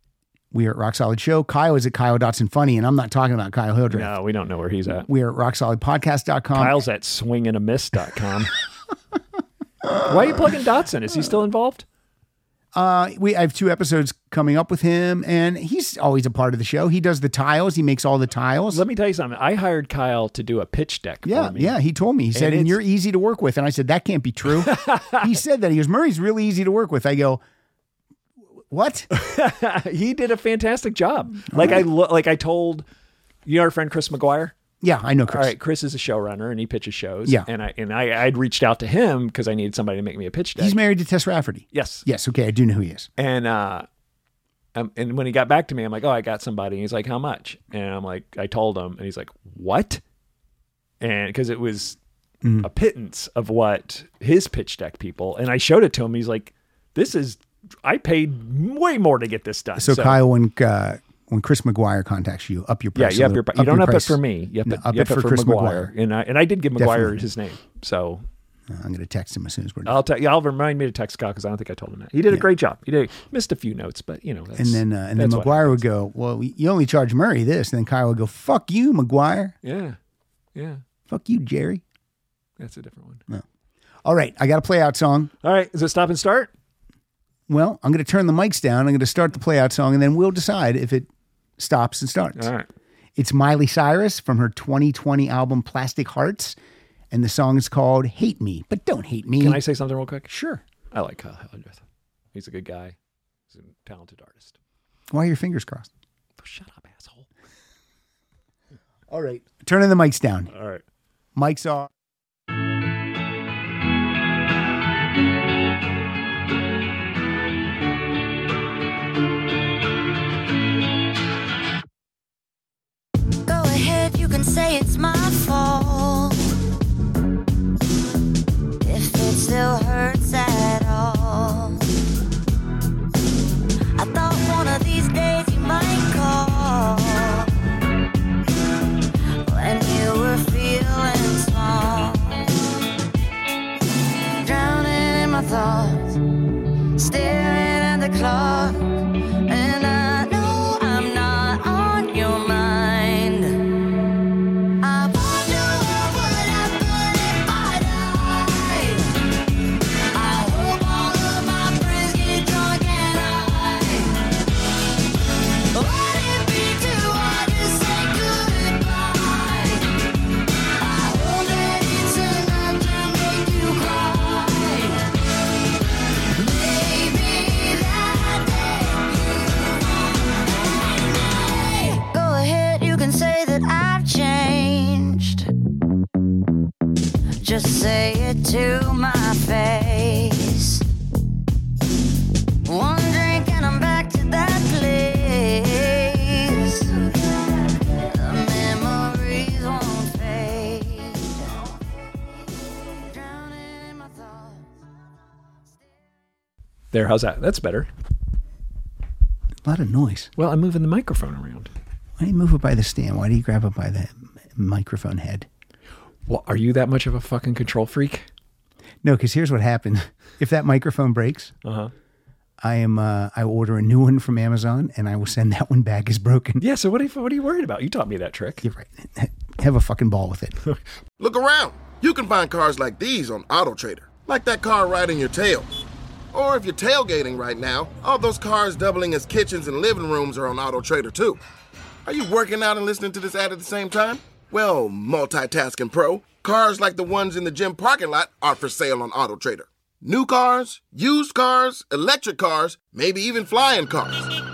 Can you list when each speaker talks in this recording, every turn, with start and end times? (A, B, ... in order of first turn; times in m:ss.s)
0:00.5-0:04.1 A
0:03.9-0:05.1 B
0:05.1-0:06.8 A
0:06.6-0:08.5 B
0:09.8-0:10.4 A
0:10.1-0:11.8 B
0:12.7-0:18.8 A
0:18.7-0:21.8 B
0:21.3-0:27.4 A
0:22.3-0:22.8 B
0:24.5-0:25.3 B
0:28.7-0:29.1 A
0:29.1-0:32.8 B
0:31.5-0:31.8 A
0:33.5-0:34.6 B
0:34.8-0:35.5 A
0:35.3-0:40.8 B
0:40.6-0:43.1 A
0:41.7-0:42.0 B
0:43.2-0:43.9 B
0:44.8-0:50.0 B
0:51.0-0:52.0 B
0:52.4-0:52.7 A
0:52.6-1:00.2 B
0:59.8-1:05.9 A
1:03.0-1:08.2 B
1:06.8-1:07.2 A
1:08.7-1:10.0 A
1:09.9-1:15.8 B
1:14.6-1:19.6 A
1:19.6-1:20.0 B
1:20.6-1:20.8 B
1:21.1-1:21.8 A
1:22.6-1:23.2 B
1:24.0-1:25.3 A
1:25.4-1:26.5 B
1:27.5-1:32.5 A
1:32.4-1:32.7 B
1:33.2-1:36.6 A
1:37.1-1:39.6 A
1:39.4-1:40.3 B
1:40.3-1:40.6 A
1:40.9-1:41.8 B
1:42.3-1:43.0 B
1:43.5-1:44.6 B
1:45.1-1:45.9 A
1:46.4-1:47.3 B
1:49.1-1:50.5 A
1:50.5-1:50.8 B
1:51.4-1:51.9 A
2:03.5-2:06.4 C
2:08.8-2:11.9 C
2:14.0-2:17.5 C
2:19.5-2:22.5 C
2:24.4-2:26.2 C
2:27.0-2:28.9 C
2:29.5-2:33.6 C
2:34.8-2:39.1 C
2:40.1-2:44.2 C
2:45.7-2:49.9 C
2:50.8-2:55.1 C
2:56.3-3:05.4 C
3:07.4-3:10.8 C
3:12.6-3:21.8 C
3:23.0-3:24.7 C
3:26.9-3:27.9 B
3:29.6-3:30.3 A
3:30.4-3:31.7 B
3:32.2-3:35.5 A
3:36.3-3:38.3 B
3:39.0-3:41.5 A
3:41.6-3:41.9 B
3:42.6-3:46.6 A
3:46.6-3:48.6 B
3:48.6-3:50.6 A
3:51.2-3:55.7 D
3:56.3-4:01.4 D
4:02.0-4:14.2 D